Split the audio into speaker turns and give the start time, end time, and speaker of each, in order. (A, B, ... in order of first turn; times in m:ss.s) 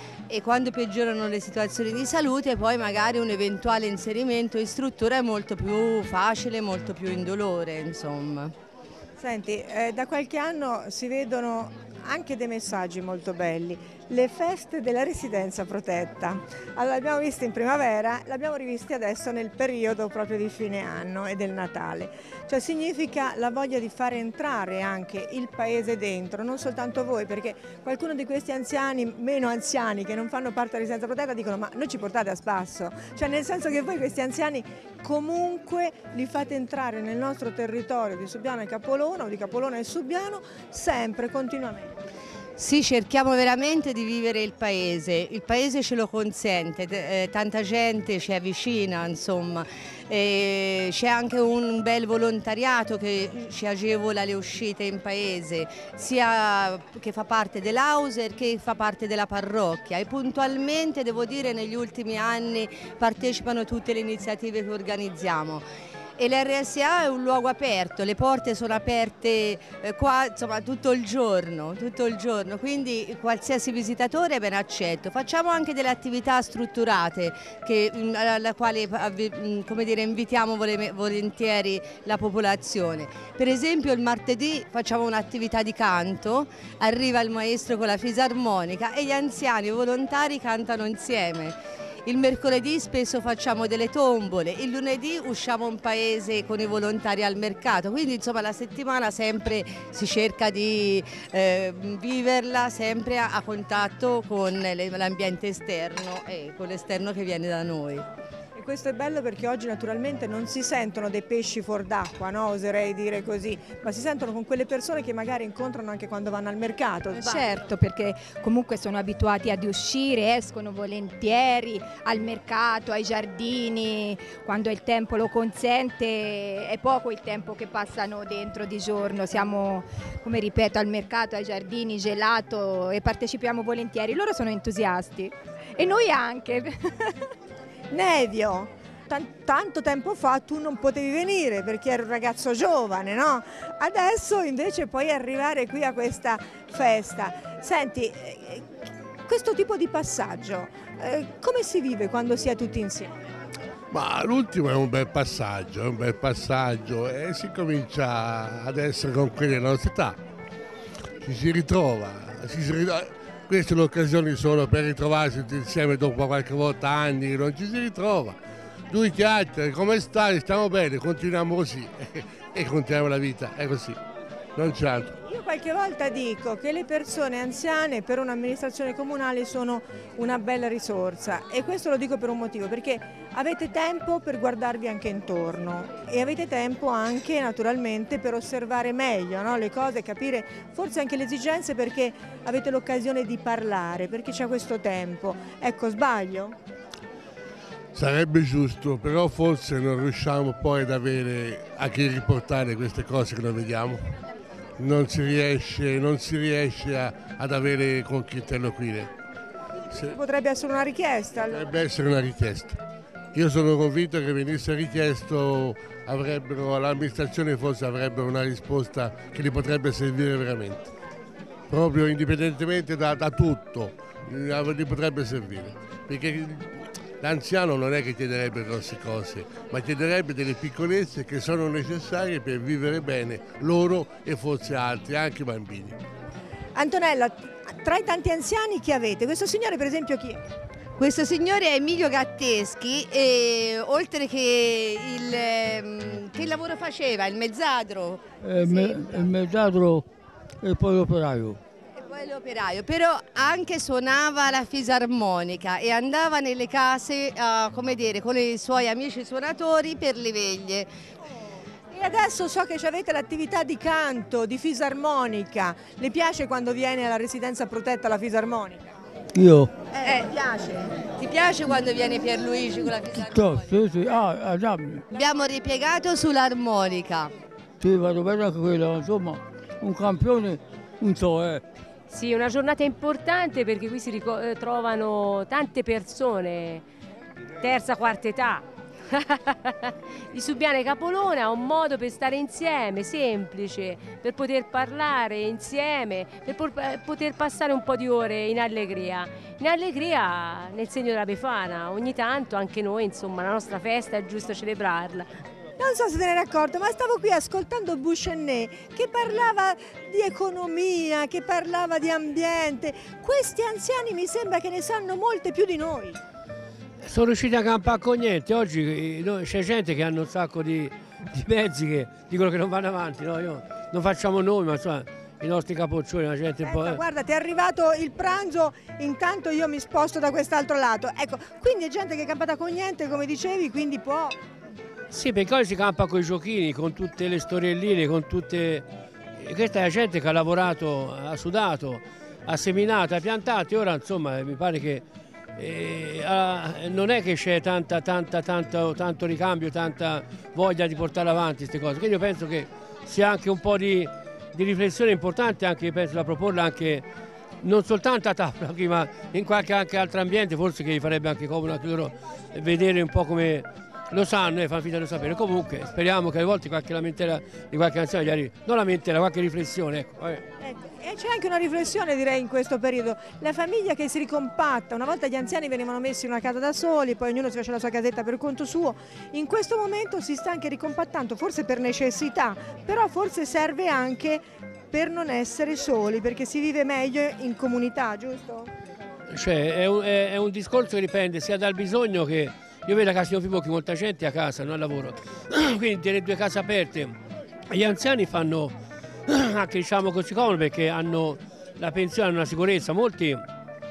0:00.3-0:08.5 A
0:09.2-0:41.9 B
0:42.6-1:05.6 A
1:06.2-1:31.6 A
1:32.1-1:48.0 A
1:48.6-1:57.5 B
1:57.2-2:17.2 C
2:17.9-2:28.7 B
2:29.3-2:33.2 B
2:33.9-2:40.2 D
2:41.2-2:48.4 D
2:48.9-2:54.0 D
2:54.6-2:55.2 D
2:55.2-3:16.6 B
3:18.0-3:24.2 D
3:24.8-3:29.1 D
3:29.9-3:30.2 D
3:30.1-3:31.7 B
3:31.5-3:32.8 D
3:33.4-3:40.9 D
3:41.7-3:56.0 D
3:56.8-4:00.4 B
4:01.0-4:09.2 A
4:08.4-4:10.0 E
4:10.6-4:11.6 E
4:12.0-4:20.9 A
4:21.9-4:28.9 B
4:29.4-4:29.7 E
4:29.9-4:30.9 B
4:30.0-4:30.3 A
4:31.2-4:34.2 A
4:33.4-4:35.0 E
4:35.1-4:37.3 A
4:37.8-4:41.6 E
4:42.1-4:46.8 F
4:47.6-5:05.3 F
5:05.8-5:16.2 B
5:17.1-5:27.0 G
5:26.6-5:34.4 B
5:35.1-5:38.9 G
5:39.4-5:45.0 G
5:45.6-5:57.0 G
5:57.6-6:10.4 G
6:10.6-6:28.7 B
6:29.3-6:37.2 G
6:37.7-6:38.7 G
6:39.3-6:43.4 G